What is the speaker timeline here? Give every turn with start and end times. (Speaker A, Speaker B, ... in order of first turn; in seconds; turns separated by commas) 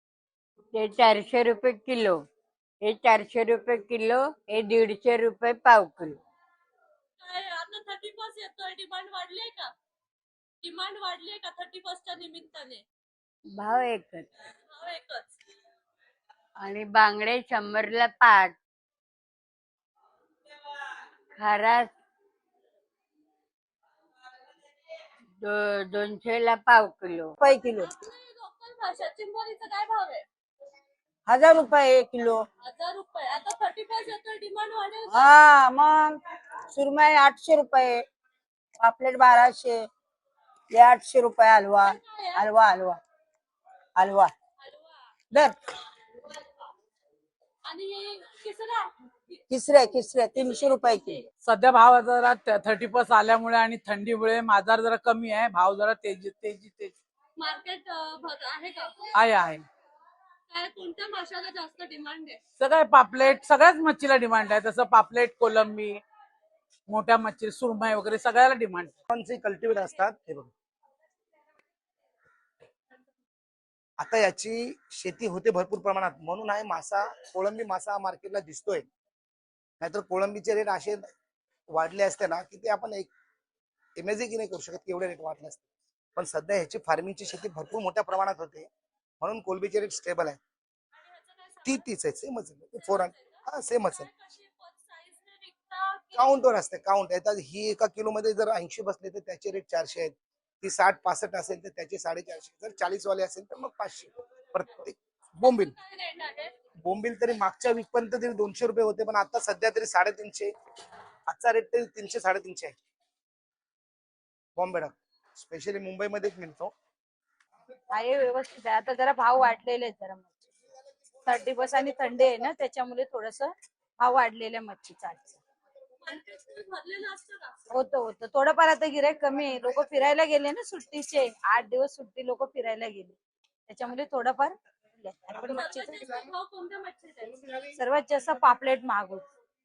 Speaker A: 0.7-2.2, Speaker A: 2.8-6.2, Speaker B: 7.2-9.7, Speaker B: 10.6-12.8, Speaker A: 13.5-14.3, Speaker B: 14.7-15.3, Speaker A: 16.6-18.6, Speaker A: 21.4-21.9, Speaker A: 25.4-27.3, Speaker C: 27.4-27.9, Speaker B: 27.5-30.2, Speaker C: 31.3-32.4, Speaker B: 32.6-35.3, Speaker C: 35.1-36.2, Speaker C: 36.7-38.0, Speaker C: 38.8-39.9, Speaker C: 40.7-43.0, Speaker B: 41.8-42.5, Speaker C: 44.0-44.3, Speaker B: 44.6-44.9, Speaker C: 45.3-45.5, Speaker B: 47.6-49.4, Speaker C: 49.5-51.2, Speaker D: 51.4-56.9, Speaker B: 57.4-59.1, Speaker D: 59.1-59.6, Speaker B: 60.5-62.4, Speaker D: 62.6-66.0, Speaker D: 66.9-69.0, Speaker E: 69.1-70.5, Speaker E: 74.0-78.9, Speaker E: 79.8-81.1, Speaker E: 81.7-83.1, Speaker E: 84.0-85.6, Speaker E: 86.2-88.7, Speaker E: 89.2-90.4, Speaker B: 91.0-91.8, Speaker E: 91.6-94.1, Speaker B: 92.8-96.4, Speaker E: 96.1-105.8, Speaker B: 105.4-106.5, Speaker E: 106.8-110.5, Speaker E: 111.3-112.7, Speaker E: 114.5-116.7, Speaker F: 117.9-120.3, Speaker F: 121.2-125.4, Speaker B: 126.0-127.5, Speaker F: 127.7-136.2, Speaker B: 135.4-137.4, Speaker F: 137.7-139.2